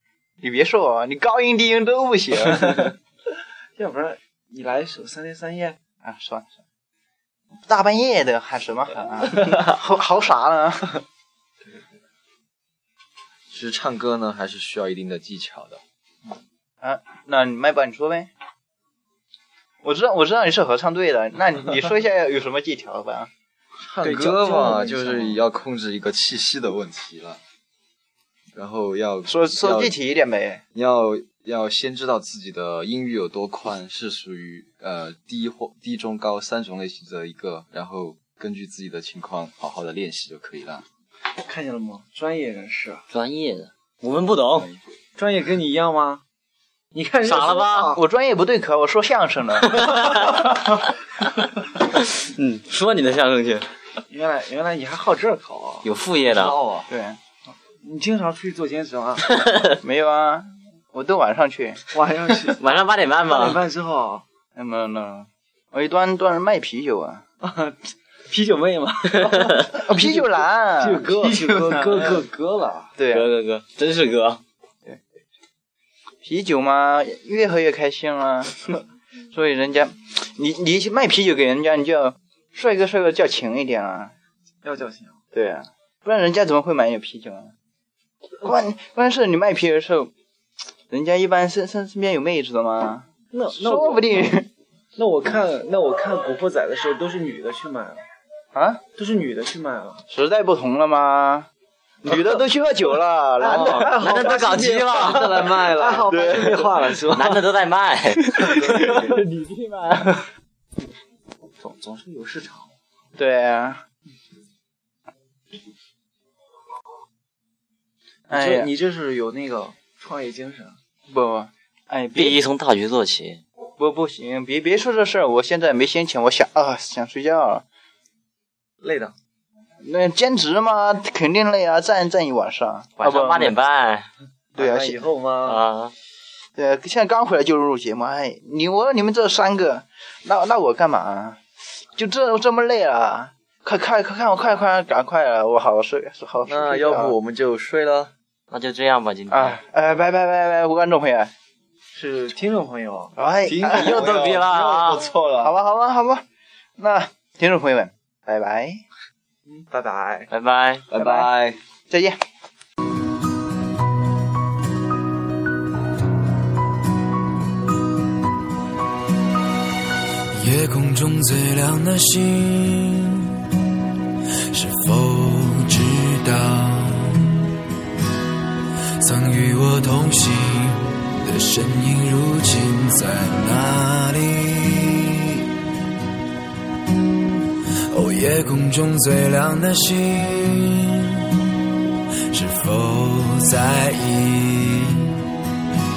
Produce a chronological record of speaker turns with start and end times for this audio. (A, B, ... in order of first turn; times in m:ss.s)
0:00.4-0:03.0 A
0:03.8-0:05.8 B
0:06.0-0:06.5 A
0:07.7-0:11.0 A
0:13.5-0:15.8 C
0:16.8-0:18.3 A
0:19.8-0:23.3 A
0:23.8-0:27.4 C
0:24.0-0:25.4 B
0:28.6-0:30.0 C
0:29.3-0:30.6 A
0:30.7-0:40.8 C
0:41.4-0:43.1 B
0:43.1-0:44.7 D
0:45.2-0:46.2 B
0:46.9-0:48.0 B
0:47.2-0:48.0 D
0:47.9-0:49.9 A
0:49.8-0:50.4 D
0:52.2-0:53.7 D
0:54.1-0:55.9 B
0:55.8-0:56.6 D
0:56.3-0:56.9 C
0:56.9-0:57.2 A
0:57.8-0:59.3 B
0:59.8-1:01.8 A
1:01.9-1:04.2 B
1:02.6-1:03.6 D
1:04.6-1:07.2 A
1:07.4-1:13.0 B
1:09.7-1:12.2 A
1:13.0-1:13.3 A
1:13.1-1:14.4 D
1:16.2-1:24.1 A
1:24.6-1:25.2 B
1:25.3-1:27.5 A
1:28.4-1:30.1 A
1:30.9-1:34.5 A
1:33.3-1:34.3 B
1:35.0-1:38.0 B
1:38.5-1:38.8 A
1:39.0-1:40.0 B
1:40.1-1:41.5 A
1:42.0-1:43.9 A
1:43.4-1:47.4 B
1:43.4-1:43.9 C
1:43.6-1:45.7 D
1:44.9-1:46.3 C
1:46.1-1:46.7 A
1:47.1-1:48.9 D
1:48.4-1:50.2 A
1:51.6-1:52.7 B
1:53.2-1:53.8 A
1:58.3-1:58.7 A
1:58.3-2:00.8 B
2:01.1-2:02.4 A
2:02.2-2:03.4 D
2:03.8-2:07.6 A
2:08.8-2:09.1 C
2:09.8-2:13.6 A
2:13.0-2:14.1 D
2:14.6-2:15.6 B
2:14.6-2:15.0 A
2:15.4-2:15.9 D
2:16.6-2:21.4 A
2:22.0-2:27.2 A
2:26.4-2:28.1 C
2:28.5-2:29.6 D
2:29.3-2:31.3 A
2:31.9-2:33.1 B
2:33.2-2:34.0 A
2:33.5-2:35.6 C
2:33.7-2:35.1 D
2:35.4-2:36.2 A
2:36.8-2:38.8 A
2:39.5-2:40.3 B
2:40.3-2:40.9 D
2:40.9-2:41.6 C
2:41.0-2:41.3 A
2:41.9-2:42.2 A
2:50.3-2:53.4 E
2:54.5-2:57.4 E
2:59.0-3:05.5 E
3:07.9-3:11.4 E
3:12.3-3:15.2 E